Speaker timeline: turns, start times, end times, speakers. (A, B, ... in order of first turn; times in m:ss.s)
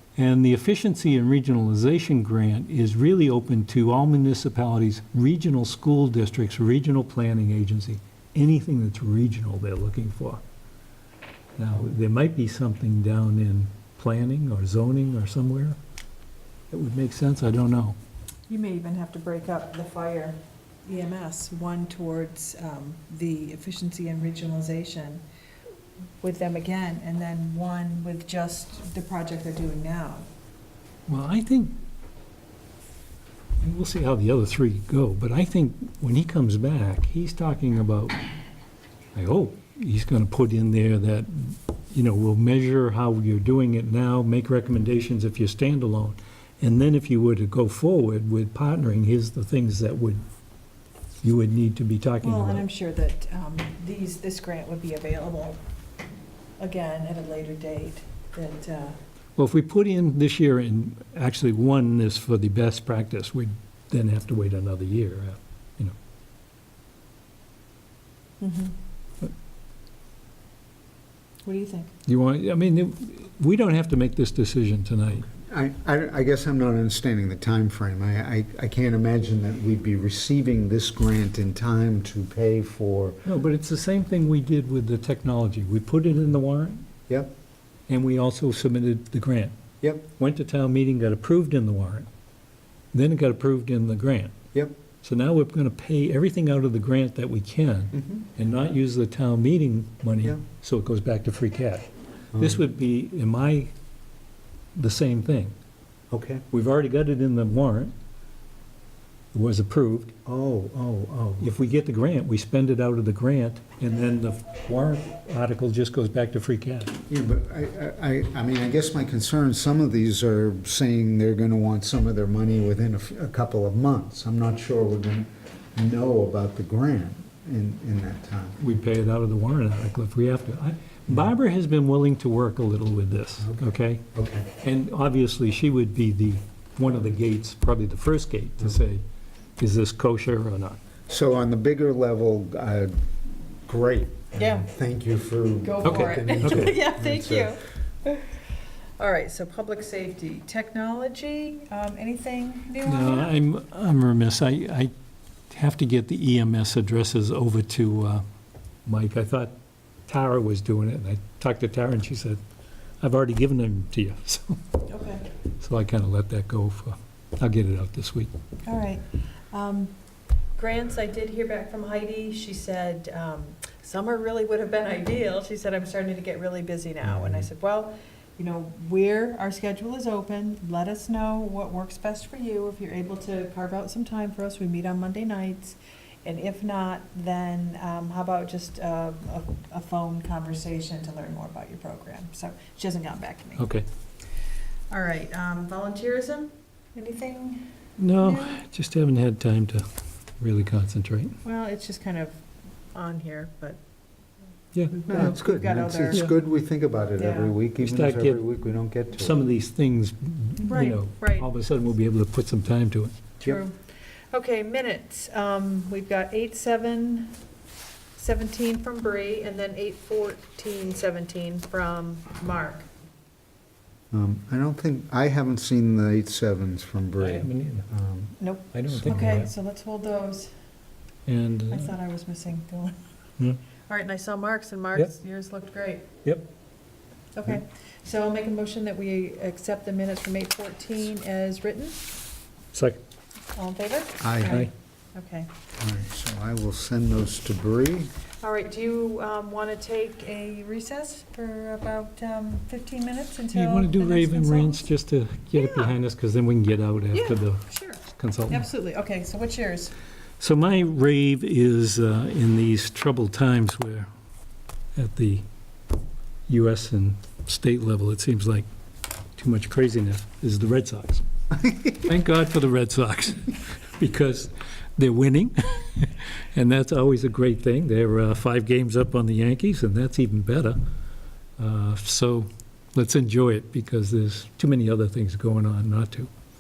0:00.2-0:10.4 A
0:11.6-0:15.8 A
0:16.7-0:18.0 A
0:18.5-0:25.2 B
0:26.2-0:30.3 B
0:31.1-0:31.8 A
0:33.6-0:38.2 A
0:39.2-0:50.2 A
0:51.2-0:52.6 A
0:52.2-0:55.6 B
0:56.6-0:59.0 B
0:59.4-1:06.0 A
1:08.4-1:08.8 B
1:11.4-1:11.9 B
1:12.1-1:15.3 A
1:15.4-1:23.2 C
1:23.2-1:26.9 A
1:27.9-1:29.6 A
1:30.2-1:32.1 A
1:32.9-1:34.4 A
1:35.0-1:43.7 A
1:37.9-1:38.2 C
1:42.3-1:42.6 C
1:44.8-1:45.5 A
1:46.1-1:46.4 C
1:46.5-1:47.9 A
1:49.3-1:50.1 A
1:50.3-1:51.5 C
1:51.4-1:57.0 A
1:57.1-2:08.6 C
2:08.6-2:14.0 A
2:13.4-2:14.5 C
2:14.6-2:19.0 A
2:19.6-2:20.8 A
2:21.1-2:22.9 C
2:23.6-2:27.6 C
2:24.4-2:24.7 B
2:25.6-2:28.4 B
2:25.9-2:26.7 A
2:29.0-2:33.3 B
2:32.8-2:34.9 A
2:35.5-2:38.2 A
2:38.9-2:39.5 A
2:40.1-2:42.4 A
2:43.0-2:44.6 A
2:44.9-2:45.3 B
2:45.6-2:48.3 A
2:48.6-2:49.9 B
2:50.6-3:13.7 B
2:57.0-2:57.5 C
3:13.6-3:13.9 A
3:14.9-3:18.6 B
3:18.0-3:19.9 A
3:20.4-3:21.4 A
3:21.4-3:22.4 B
3:22.9-3:23.8 B
3:24.7-3:25.3 A
3:24.9-3:26.3 B
3:25.1-3:29.4 C
3:27.2-3:27.6 B
3:27.8-3:28.4 A
3:29.2-3:33.1 A
3:30.6-3:31.5 B
3:33.4-3:33.8 B
3:34.3-3:37.4 B
3:38.2-3:42.9 B
3:44.1-3:49.4 C
3:47.2-3:47.9 A
3:48.4-3:50.5 B
3:48.7-3:49.5 A
3:51.3-3:51.9 A
3:51.7-3:53.0 B
3:53.9-3:56.1 B
3:57.4-4:02.1 B
4:02.7-4:03.0 A
4:03.6-4:05.5 B
4:04.2-4:04.6 C
4:05.8-4:08.1 C
4:08.4-4:14.8 B
4:13.5-4:18.7 A
4:15.6-4:15.9 B
4:17.1-4:19.9 B
4:20.4-4:24.1 A
4:25.0-4:25.5 A
4:26.5-4:28.7 A
4:29.4-4:31.2 A
4:31.5-4:32.1 C
4:32.0-4:40.8 A
4:41.6-4:46.3 A